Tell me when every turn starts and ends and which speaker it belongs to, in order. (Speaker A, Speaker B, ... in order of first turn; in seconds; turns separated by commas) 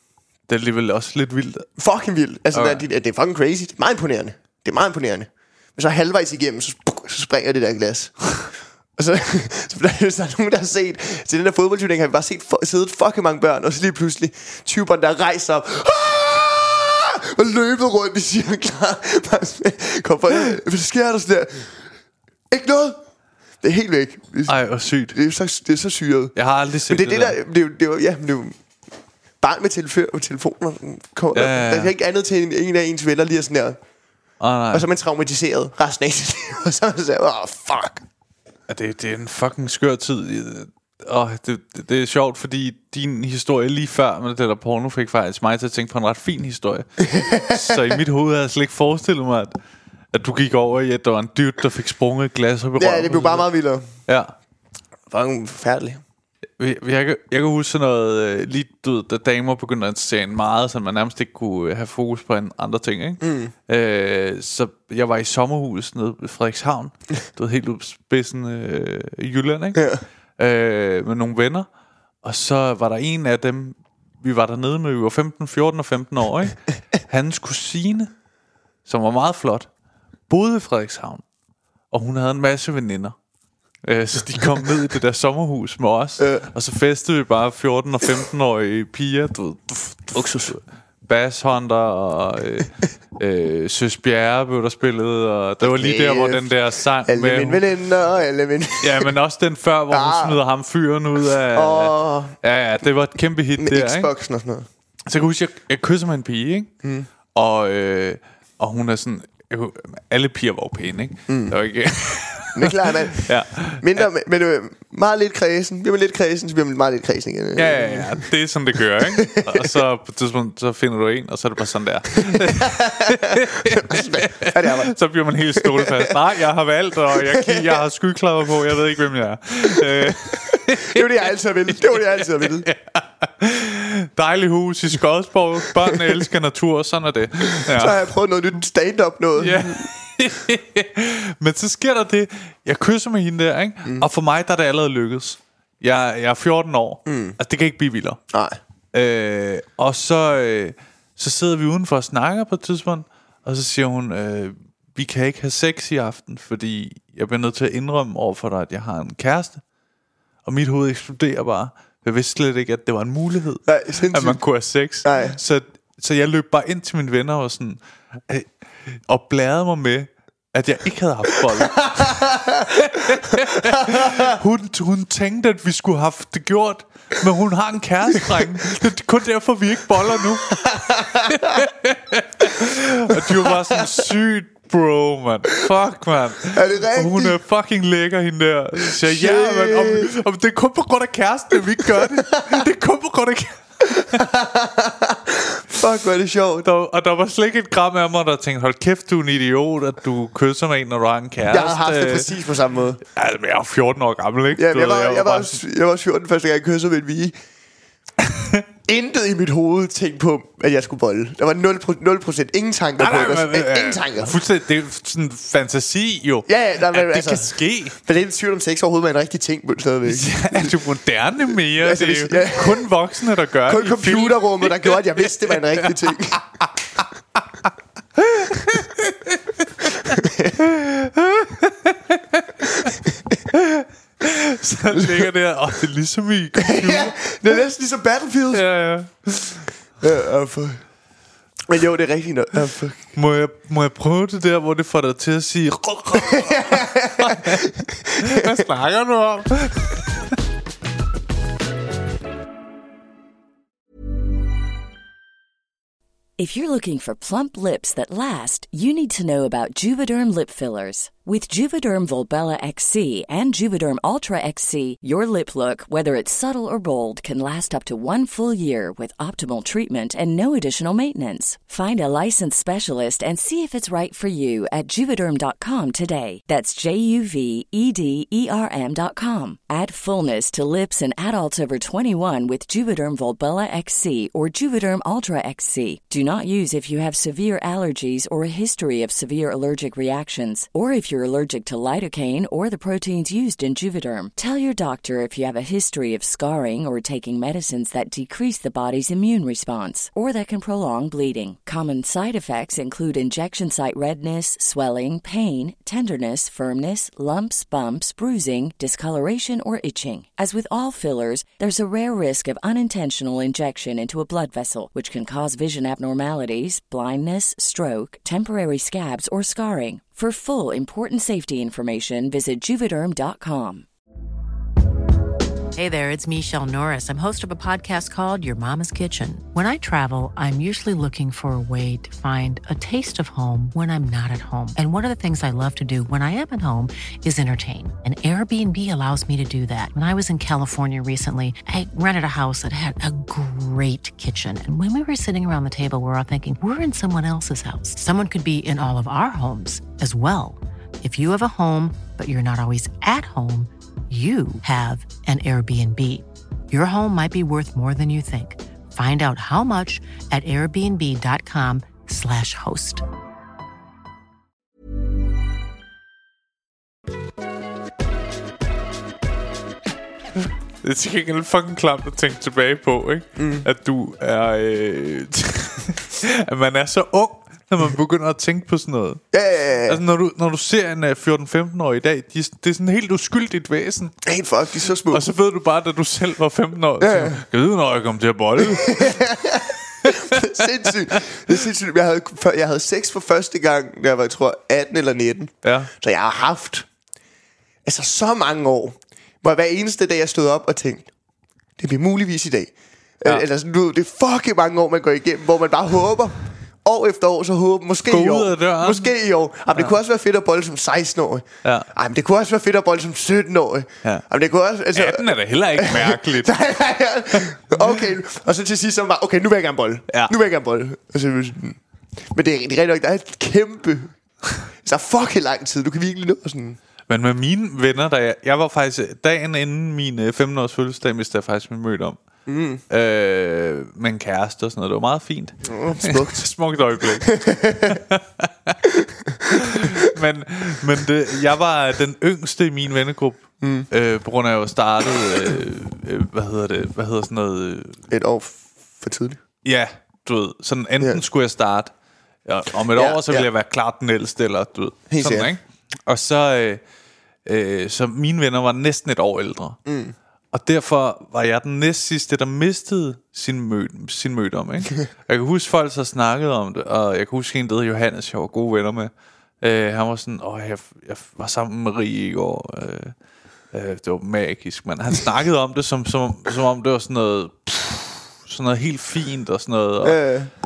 Speaker A: 0.5-1.7, Speaker B: 1.8-21.8, Speaker A: 2.5-2.8, Speaker B: 22.5-23.0, Speaker B: 23.6-24.6, Speaker A: 24.5-25.2, Speaker B: 25.1-26.4, Speaker A: 26.4-27.4, Speaker B: 26.9-28.6, Speaker B: 29.4-33.8, Speaker A: 31.3-31.9, Speaker A: 34.4-34.9, Speaker B: 34.7-38.0, Speaker A: 38.7-49.5, Speaker B: 47.0-48.0, Speaker A: 50.1-53.5, Speaker B: 52.8-53.9, Speaker A: 54.1-54.3, Speaker B: 55.1-56.0, Speaker A: 56.6-71.7, Speaker B: 63.2-63.5, Speaker B: 69.8-70.0, Speaker A: 72.2-78.1, Speaker A: 78.9-79.7, Speaker A: 80.3-81.2, Speaker A: 81.9-83.2, Speaker A: 83.8-97.6, Speaker B: 86.2-86.5, Speaker B: 90.1-90.6, Speaker B: 95.6-96.5, Speaker B: 97.0-99.1, Speaker A: 98.8-104.1, Speaker B: 99.9-100.4, Speaker B: 101.5-102.4, Speaker B: 103.6-104.7, Speaker A: 105.1-106.7, Speaker B: 106.8-107.1, Speaker A: 107.3-114.0, Speaker B: 111.3-111.6, Speaker B: 112.5-118.3, Speaker A: 117.6-131.0, Speaker B: 119.0-119.7, Speaker B: 122.2-125.0, Speaker B: 125.5-126.2, Speaker B: 127.1-127.8, Speaker B: 129.7-132.7, Speaker A: 132.4-138.0, Speaker B: 135.8-136.2, Speaker B: 137.6-139.9, Speaker A: 139.4-148.2, Speaker B: 147.1-147.4, Speaker B: 148.3-148.6, Speaker A: 148.9-159.6, Speaker A: 160.4-194.2, Speaker B: 163.7-164.4, Speaker B: 165.0-165.4, Speaker B: 171.8-172.7, Speaker B: 173.6-174.2, Speaker B: 180.5-181.6, Speaker B: 183.1-184.0, Speaker B: 186.5-187.4, Speaker B: 188.9-190.1, Speaker B: 191.8-192.6, Speaker B: 193.9-196.7, Speaker A: 196.6-202.4, Speaker B: 201.5-203.0, Speaker A: 203.1-205.6, Speaker B: 204.6-207.4, Speaker A: 208.3-208.6, Speaker B: 208.9-214.4, Speaker A: 213.0-218.0, Speaker B: 216.5-220.8, Speaker A: 220.1-227.0, Speaker B: 221.7-222.9, Speaker B: 223.7-226.4, Speaker A: 228.2-232.9, Speaker B: 230.1-230.6, Speaker A: 233.5-237.2, Speaker B: 234.9-235.3, Speaker B: 236.6-238.7, Speaker A: 238.5-239.7, Speaker B: 240.0-240.8, Speaker B: 241.7-243.1, Speaker A: 243.2-250.1, Speaker B: 246.1-248.6, Speaker C: 256.4-323.9, Speaker D: 325.8-363.0, Speaker A: 370.8-379.2, Speaker B: 373.4-373.7, Speaker B: 379.3-380.0, Speaker A: 379.9-384.1, Speaker B: 384.2-385.3, Speaker A: 385.1-389.3, Speaker B: 387.0-387.4, Speaker B: 388.6-396.9, Speaker A: 390.0-390.6, Speaker A: 395.6-395.9, Speaker B: 397.9-401.1, Speaker B: 401.8-421.8, Speaker A: 408.1-409.1, Speaker A: 414.9-416.6, Speaker B: 422.3-424.1, Speaker B: 424.8-426.8, Speaker A: 427.1-432.2, Speaker B: 432.5-432.8, Speaker A: 432.9-438.8, Speaker B: 435.6-436.5, Speaker B: 437.2-438.0, Speaker B: 439.0-439.9, Speaker A: 439.5-448.0, Speaker B: 443.6-443.9, Speaker B: 448.1-449.4, Speaker A: 449.6-451.9, Speaker A: 452.5-456.8, Speaker B: 452.9-453.5, Speaker B: 455.1-455.5, Speaker A: 457.5-459.8, Speaker B: 459.9-460.1, Speaker A: 460.5-473.1, Speaker A: 473.7-480.2, Speaker B: 480.0-480.5